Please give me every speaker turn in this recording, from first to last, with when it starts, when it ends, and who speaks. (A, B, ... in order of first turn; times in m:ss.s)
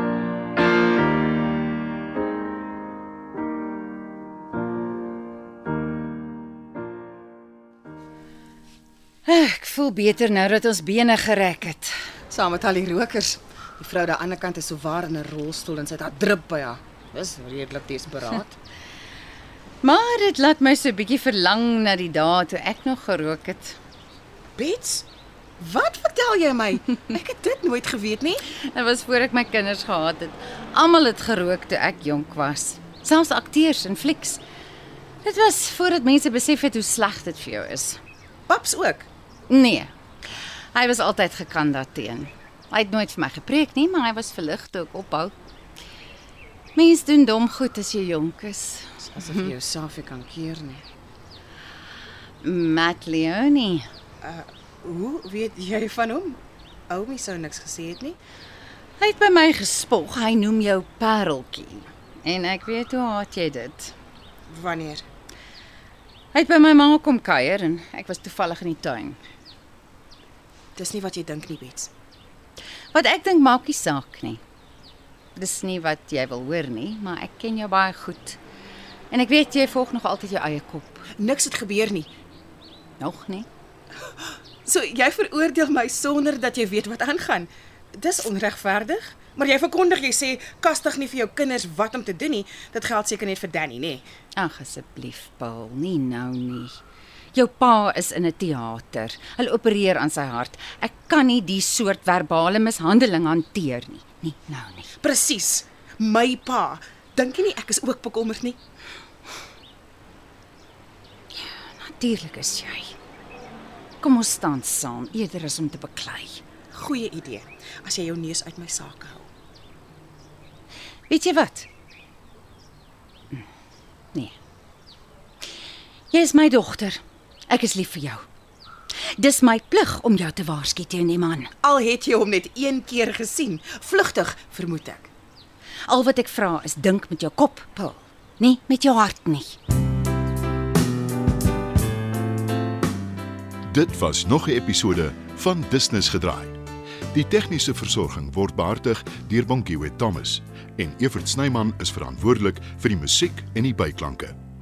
0:09.3-0:11.9 A
0:12.3-0:18.6 B
0:19.8-0:23.8 A
0:24.6-0:25.0 B
0:25.6-0:28.4 B
0:28.6-0:34.4 A
0:35.2-0:38.0 A
0:38.5-0:39.1 B
0:39.5-0:39.9 A
0:40.7-0:45.3 A
0:46.8-0:48.8 A
0:49.0-0:50.8 B
0:52.4-0:53.9 A
0:54.2-0:58.2 B
0:59.0-1:03.9 A
1:04.5-1:05.0 B
1:06.3-1:09.2 A
1:10.8-1:11.9 B
1:12.9-1:14.4 A
1:15.4-1:18.4 A
1:19.1-1:21.0 A
1:21.2-1:22.1 B
1:23.0-1:23.5 A
1:24.1-1:34.0 B
1:34.4-1:36.8 A
1:37.3-1:44.9 A
1:45.0-1:48.6 B
1:51.3-1:52.9 A
1:54.0-1:56.4 A
1:56.7-1:59.3 B
2:01.1-2:01.7 A
2:06.1-2:08.2 A
2:09.2-2:11.5 A
2:11.6-2:15.1 B
2:15.9-2:19.6 A
2:23.7-2:26.6 C
2:27.1-2:34.4 C